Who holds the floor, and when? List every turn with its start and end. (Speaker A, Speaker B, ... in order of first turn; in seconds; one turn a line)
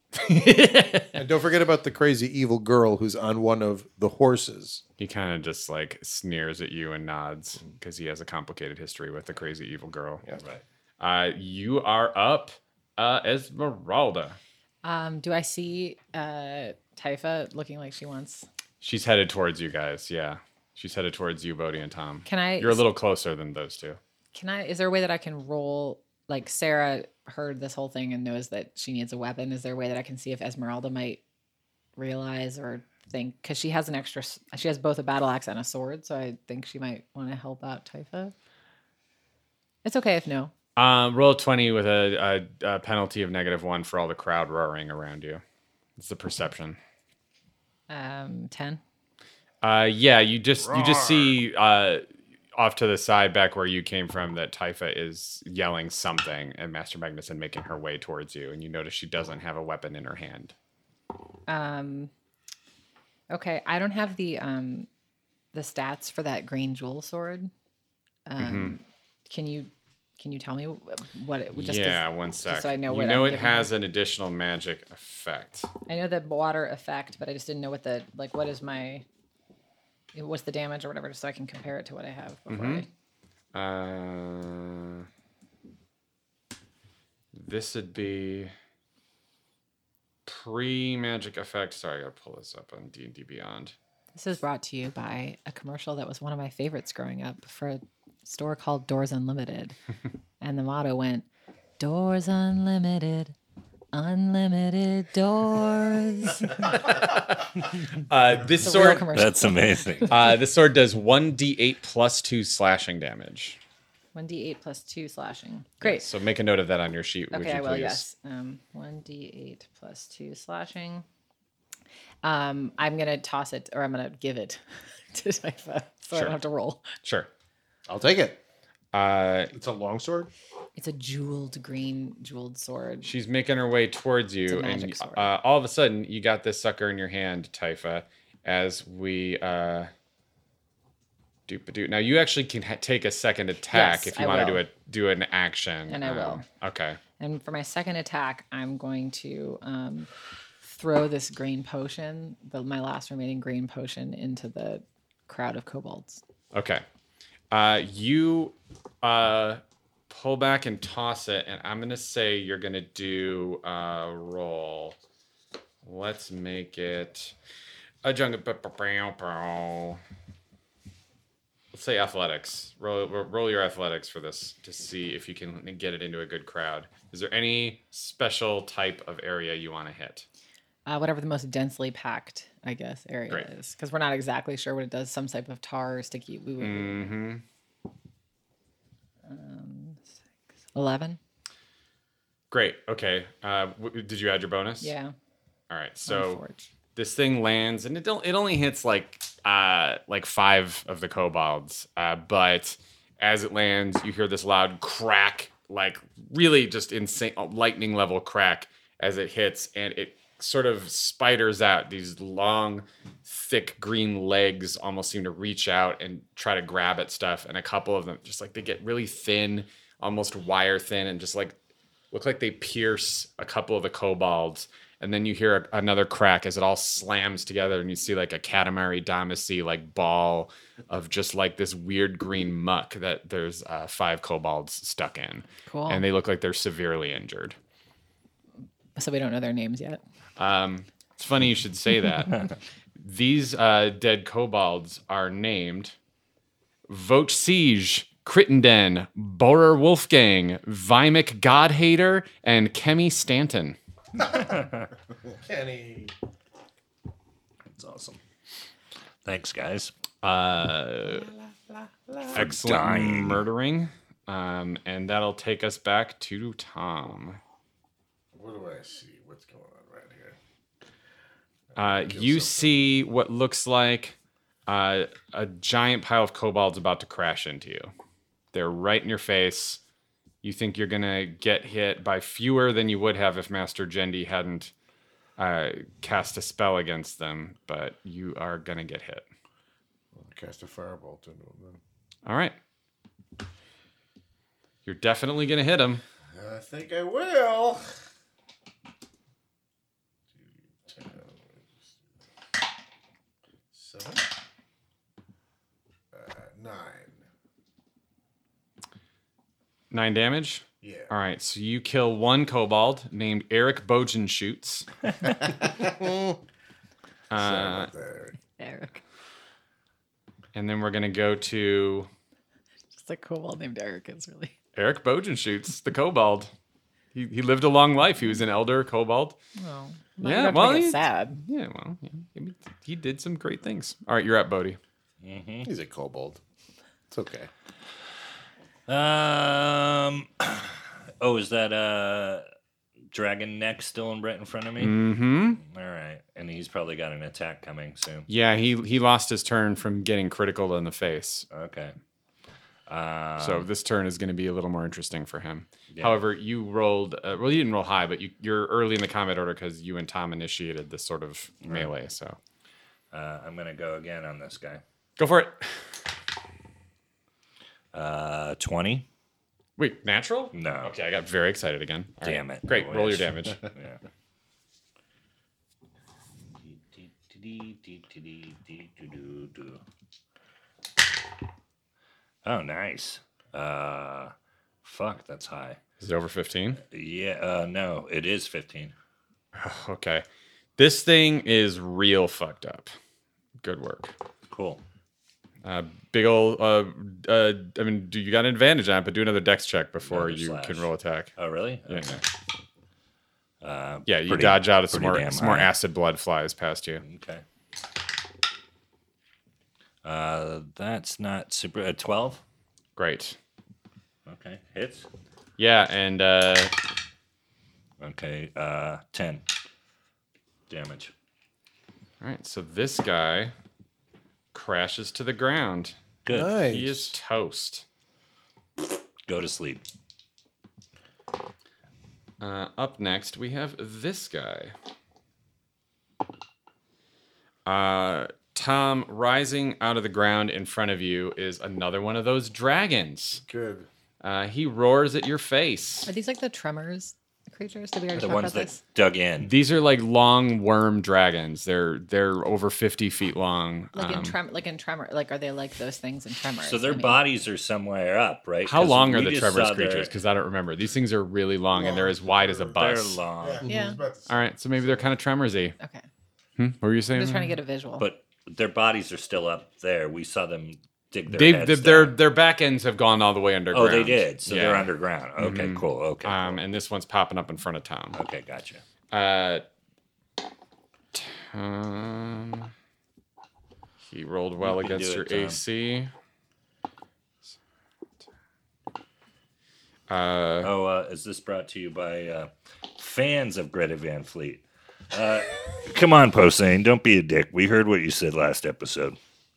Speaker A: 0.1-1.2
Speaker B: 1.1-4.8
Speaker A: 5.0-10.2
Speaker A: 11.0-14.4
Speaker C: 14.8-18.5
Speaker A: 18.8-24.0
Speaker C: 22.3-22.8
Speaker C: 24.3-31.2
Speaker C: 32.0-38.3
Speaker C: 39.9-40.5
Speaker A: 40.8-45.4
Speaker A: 46.0-46.8
Speaker C: 47.9-48.8
Speaker A: 49.6-52.0
Speaker A: 52.6-60.5
Speaker C: 61.5-62.1
Speaker C: 63.3-64.9
Speaker C: 65.5-67.5
Speaker C: 68.3-73.7
Speaker A: 68.4-68.8
Speaker A: 71.5-75.7
Speaker C: 75.9-79.0
Speaker C: 80.1-82.9
Speaker A: 82.5-82.9
Speaker A: 83.5-85.1
Speaker A: 87.3-88.5
Speaker A: 90.3-93.7
Speaker C: 94.1-99.8
Speaker C: 100.4-101.3
Speaker C: 101.8-103.3
Speaker C: 103.9-106.7
Speaker A: 106.6-109.1
Speaker C: 108.6-110.1
Speaker D: 109.1-110.2
Speaker A: 110.1-113.6
Speaker C: 114.1-116.1
Speaker A: 115.8-118.0
Speaker C: 117.3-121.0
Speaker C: 122.2-124.6
Speaker C: 125.1-126.9
Speaker A: 126.1-126.4
Speaker A: 127.0-127.3
Speaker B: 127.9-128.4
Speaker A: 128.9-129.5
Speaker B: 129.5-130.3
Speaker C: 130.8-133.1
Speaker A: 133.0-139.9
Speaker C: 134.5-135.3
Speaker A: 141.5-147.0
Speaker C: 143.7-144.6
Speaker C: 145.9-146.4
Speaker C: 147.2-150.1
Speaker C: 150.6-156.2
Speaker A: 156.5-156.8
Speaker A: 157.5-165.0
Speaker A: 165.8-167.3
Speaker A: 168.0-170.0
Speaker A: 171.7-180.3
Speaker C: 180.9-187.1
Speaker A: 186.6-187.4
Speaker C: 189.2-190.2
Speaker C: 190.7-191.2
Speaker A: 192.5-194.9
Speaker C: 194.8-195.1
Speaker A: 195.7-196.4
Speaker C: 196.1-196.7
Speaker A: 196.9-221.6
Speaker A: 222.1-237.6
Speaker C: 235.7-236.1
Speaker C: 239.0-240.0
Speaker A: 240.4-242.4
Speaker A: 243.0-245.9
Speaker A: 246.9-253.8
Speaker D: 254.4-254.9
Speaker B: 255.5-256.1
Speaker D: 257.7-258.2
Speaker D: 259.2-259.9
Speaker A: 260.2-261.3
Speaker D: 262.3-263.5
Speaker A: 262.3-267.4
Speaker E: 268.4-270.4
Speaker E: 271.7-272.8
Speaker A: 271.8-274.2
Speaker A: 274.7-277.9
Speaker A: 278.5-279.8
Speaker A: 280.4-284.7
Speaker A: 285.4-289.3
Speaker E: 290.1-291.8
Speaker A: 292.3-292.6
Speaker A: 294.9-296.0
Speaker E: 296.4-297.9
Speaker E: 300.4-301.9
Speaker E: 303.7-304.2
Speaker E: 306.1-307.2
Speaker A: 309.9-314.9
Speaker E: 310.8-311.1
Speaker E: 315.2-316.4
Speaker A: 317.3-317.9
Speaker E: 317.4-318.4
Speaker C: 318.6-319.0
Speaker A: 320.5-322.1
Speaker C: 322.9-324.5
Speaker A: 324.8-326.5
Speaker A: 327.1-329.4
Speaker C: 329.6-331.4
Speaker A: 330.2-334.8
Speaker D: 335.2-335.7
Speaker B: 335.6-336.4
Speaker B: 337.1-337.5
Speaker D: 338.9-342.5
Speaker D: 343.1-345.0
Speaker A: 344.8-345.6
Speaker D: 345.6-348.3
Speaker A: 348.3-351.5
Speaker D: 351.5-351.9
Speaker D: 352.9-353.7
Speaker A: 353.4-362.4
Speaker D: 355.9-356.2
Speaker D: 361.6-361.9
Speaker D: 363.1-364.8
Speaker A: 365.2-365.6
Speaker D: 367.9-369.1
Speaker A: 369.8-373.7
Speaker D: 370.5-370.9
Speaker D: 372.2-374.0
Speaker D: 376.6-379.8
Speaker D: 382.4-385.8
Speaker A: 386.0-386.8
Speaker D: 386.8-388.9
Speaker A: 389.6-390.2
Speaker A: 390.8-392.9
Speaker A: 393.6-394.1
Speaker D: 394.5-394.8
Speaker A: 395.6-401.3
Speaker D: 400.0-402.2
Speaker A: 401.9-402.2
Speaker D: 403.6-405.7
Speaker A: 404.1-407.0
Speaker D: 407.0-407.4
Speaker D: 410.0-412.4
Speaker A: 413.0-413.4
Speaker D: 414.3-415.1
Speaker A: 415.6-416.8
Speaker D: 418.0-419.4
Speaker D: 420.7-421.1
Speaker A: 422.2-423.5
Speaker A: 424.5-426.0
Speaker D: 426.2-426.5
Speaker B: 426.3-427.1
Speaker A: 426.6-427.9
Speaker D: 429.3-429.8
Speaker A: 432.4-434.7
Speaker A: 437.7-443.4
Speaker E: 443.4-443.9
Speaker A: 444.2-446.1
Speaker C: 446.1-448.8
Speaker D: 448.1-449.5
Speaker A: 449.4-454.4
Speaker C: 453.9-457.2
Speaker D: 456.6-460.1
Speaker A: 458.6-463.2
Speaker E: 461.7-462.8
Speaker D: 462.7-463.7
Speaker E: 463.4-465.1
Speaker C: 463.7-464.0
Speaker A: 464.3-465.8
Speaker C: 465.8-466.1
Speaker A: 466.6-467.6
Speaker C: 467.1-468.1
Speaker D: 468.0-472.1
Speaker A: 471.3-478.2
Speaker D: 473.7-476.6
Speaker D: 478.1-478.8
Speaker A: 479.1-479.7
Speaker A: 481.1-482.7
Speaker A: 484.1-486.1
Speaker D: 484.6-485.6
Speaker A: 490.1-490.7
Speaker D: 490.6-499.2